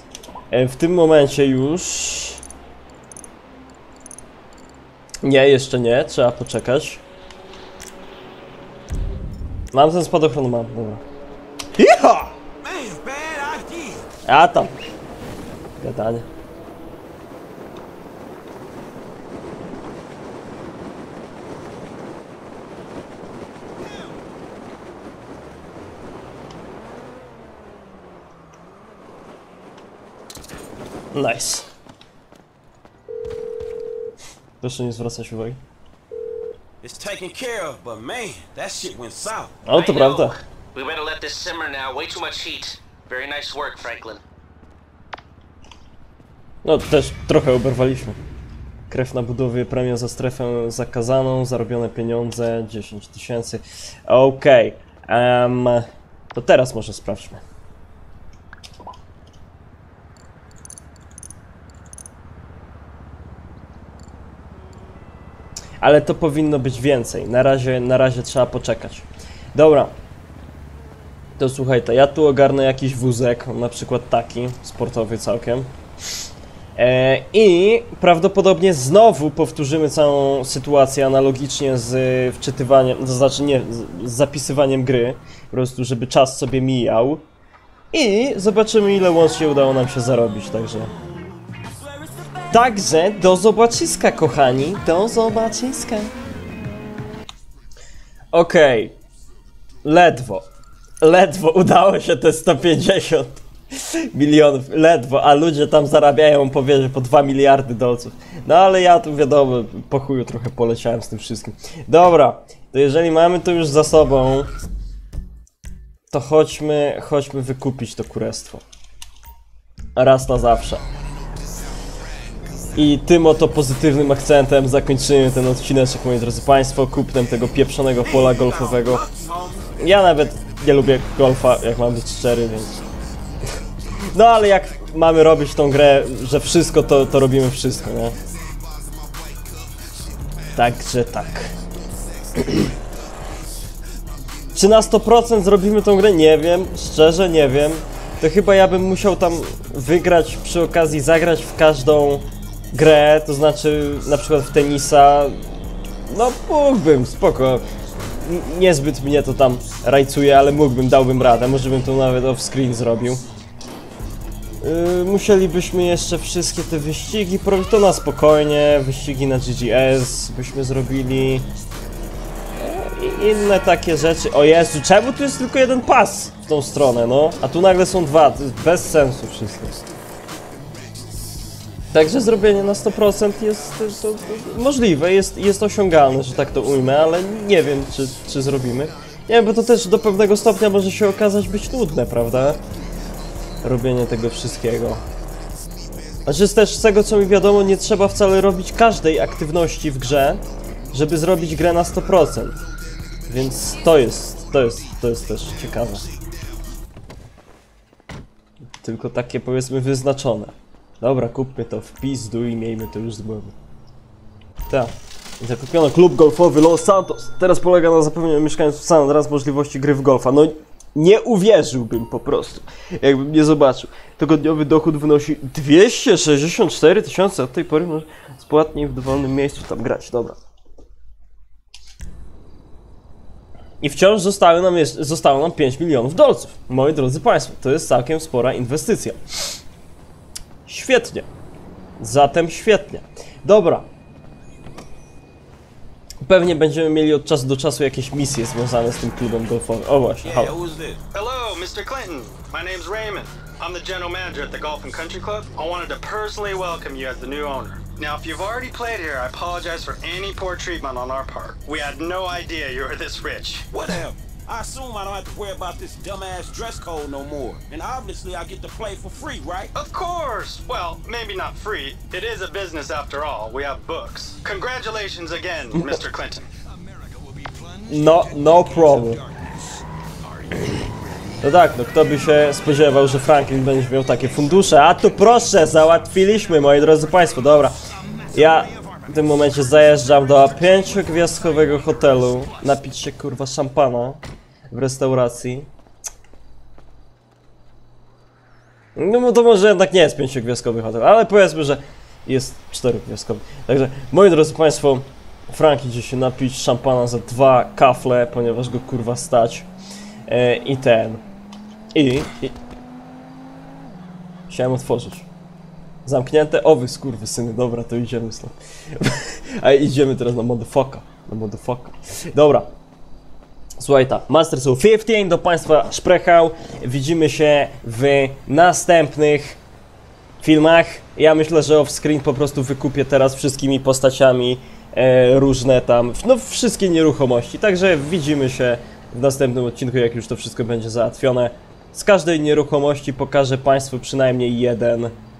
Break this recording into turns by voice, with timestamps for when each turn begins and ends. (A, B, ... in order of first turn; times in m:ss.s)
0:00.5-0:02.4 A
0:05.2-0:07.0 A
0:09.7-0:11.0 A
0:11.8-0:12.4 A
0:12.6-0:14.1 B
0:14.3-0:14.7 A
0:15.8-0:16.3 A
0:31.1-0:31.7 A
0:34.6-0:35.6 A
0:36.8-0:39.6 B
0:39.7-0:40.4 A
0:39.7-0:44.2 C
0:46.6-0:48.2 A
0:48.9-0:57.4 A
1:05.8-1:09.9 A
1:11.4-1:15.7 A
1:16.8-1:27.2 A
1:27.9-1:30.9 A
1:31.6-1:32.7 B
1:32.5-1:36.1 A
1:38.3-1:39.0 A
1:39.8-1:40.5 A
1:41.0-1:54.5 A
1:56.1-1:58.6 A
2:00.0-2:00.8 A
2:02.8-2:09.0 A
2:08.0-2:09.7 B
2:09.8-2:12.8 A
2:14.1-2:18.2 A
2:20.5-2:21.6 A
2:22.4-2:22.7 A
2:24.5-2:35.5 A
2:36.1-2:43.2 A
2:44.6-2:51.5 A
2:52.6-2:59.9 A
3:01.9-3:12.6 A
3:13.6-3:15.0 A
3:16.3-3:22.6 A
3:23.3-3:26.1 A
3:28.8-3:33.6 A
3:34.7-3:50.4 A
3:53.8-3:59.2 A
4:00.7-4:01.3 A
4:02.0-4:03.9 A
4:06.2-4:10.6 A
4:10.2-4:11.0 B
4:11.1-4:23.7 D
4:23.7-4:29.7 B
4:29.8-4:36.5 D
4:35.7-4:36.0 A
4:36.9-4:41.0 B
4:37.9-4:39.2 A
4:41.4-4:47.8 A
4:48.3-4:55.7 A
4:59.0-5:09.7 A
5:10.3-5:11.2 A
5:12.0-5:12.6 A
5:14.5-5:15.3 A
5:16.0-5:22.7 A
5:23.8-5:29.6 A
5:30.4-5:45.1 A